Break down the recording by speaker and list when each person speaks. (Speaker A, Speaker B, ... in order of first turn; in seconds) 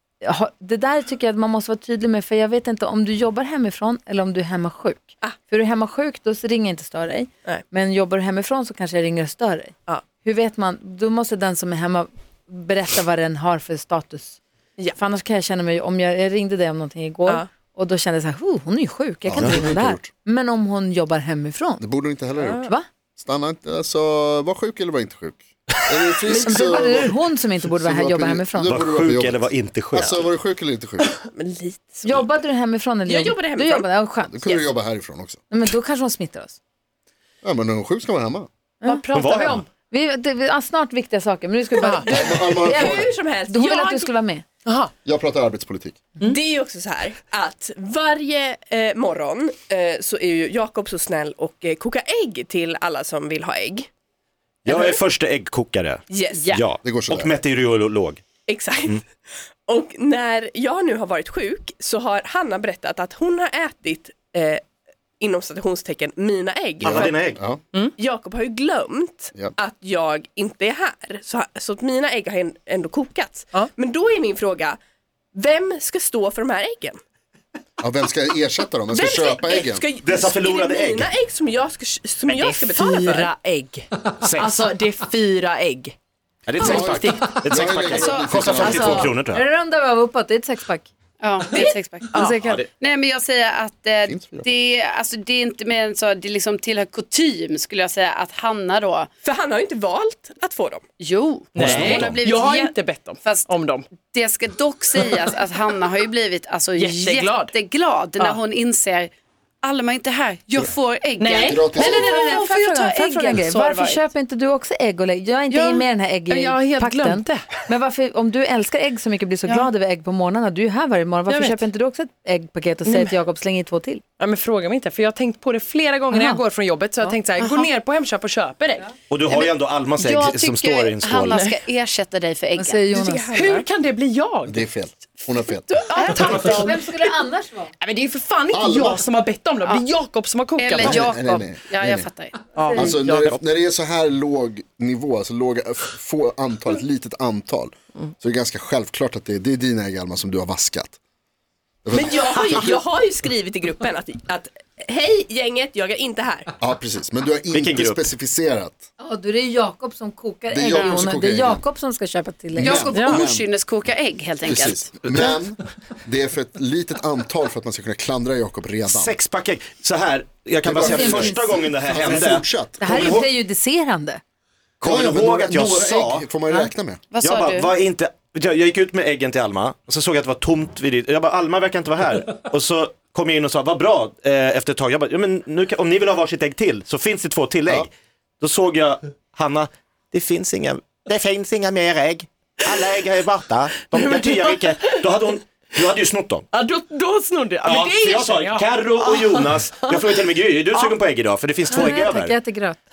Speaker A: 0.2-14.4, 14.9-21.9, 26.4-28.7, 32.0-34.7, 35.5-36.6, 39.9-44.4, 88.5-90.9, 91.6-92.6, 111.8-124.0, 126.1-126.4, 132.6-133.7, 136.1-137.7, 142.6-142.9, 159.0-162.9, 170.8-171.7, 172.8-174.2, 201.7-202.8
Speaker B: 19.2-20.1, 21.8-31.1, 34.2-35.4, 37.4-38.5, 42.0-43.1, 45.0-46.0, 56.8-57.3, 66.8-67.6, 77.8-79.8, 86.6-89.1, 94.0-94.5, 101.6-102.2, 111.4-112.2, 134.4-135.7, 138.5-139.0, 140.8-142.1, 142.7-151.0, 151.8-152.8, 156.6-158.8, 160.5-161.6, 162.5-163.5, 164.4-169.2, 170.6-173.2, 174.8-177.0
Speaker C: 22.4-22.7, 26.3-27.1, 31.0-32.3, 33.0-33.9, 42.6-44.1, 46.2-53.9, 54.6-55.0, 56.1-56.5, 58.5-59.0, 59.7-64.6, 65.2-67.3, 68.0-74.8, 75.3-77.0, 78.9-83.3, 99.2-100.8, 151.9-156.5
Speaker D: 28.6-30.2, 39.1-39.6, 54.6-58.2, 66.8-67.4, 80.0-81.1, 84.2-84.7, 86.5-89.4, 92.3-92.7, 129.1-131.5, 157.5-158.1, 168.8-173.2, 174.8-176.2, 177.2-196.4, 197.6-202.3
Speaker E: 38.8-39.6, 41.8-42.2, 44.6-44.9, 82.3-85.9, 86.6-87.4, 101.6-103.9, 106.8-107.5, 111.2-112.3, 115.5-117.4, 121.3-121.7, 122.8-123.1, 124.2-128.9, 133.3-134.6, 135.9-136.3, 137.8-141.2, 142.5-143.4, 162.9-163.2, 193.9-195.1, 196.5-200.2
Speaker F: 87.9-88.8, 91.2-99.1, 101.0-109.1, 109.6-114.0, 127.4-127.7, 129.3-133.0, 135.9-136.8, 140.6-142.4, 160.7-161.0, 162.6-164.9, 177.1-177.7